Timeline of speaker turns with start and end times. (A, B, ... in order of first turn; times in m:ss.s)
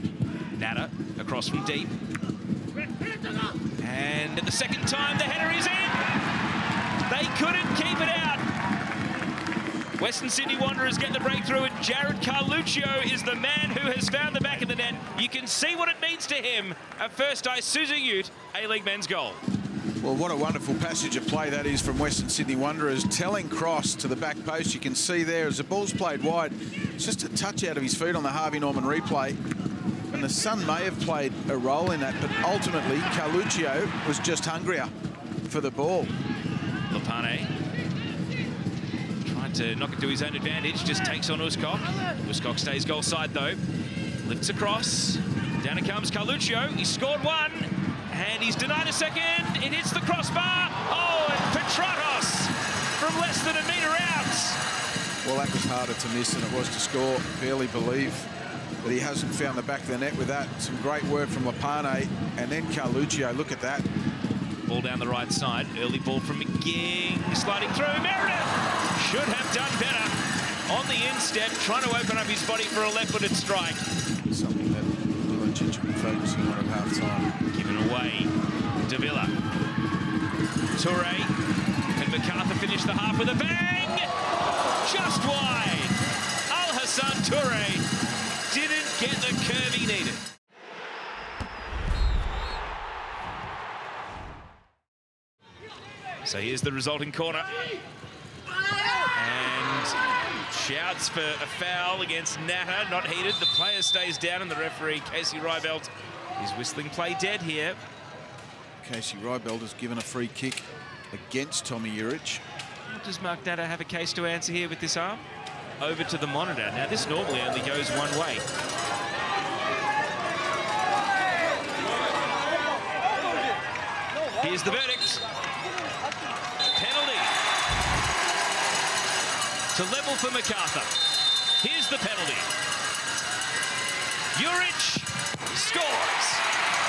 0:00.5-0:01.9 A
0:03.8-0:06.0 A
0:07.0-0:08.4 A
0:10.0-0:19.4 A
0:20.0-0:29.4 B
0:30.1-0:34.9 B
0:35.4-0:36.1 B
0:36.9-0:37.5 A
0:39.2-0:43.6 A
0:44.2-0:54.6 A
0:55.2-0:58.3 B
0:58.8-1:03.9 B
1:04.6-1:13.8 A
1:14.3-1:17.3 B
1:17.4-1:19.3 A
1:20.7-1:21.3 A
1:21.9-1:24.1 A
1:24.8-1:27.8 A
1:28.5-1:30.2 A
1:36.2-1:37.6 A
1:39.1-1:47.8 A
1:48.8-1:52.4 B
1:52.9-1:55.2 A
1:55.8-1:58.4 A
2:04.4-2:05.2 A
2:06.7-2:07.3 A
2:09.7-2:11.0 A
2:11.6-2:12.5 A
2:14.3-2:16.4 A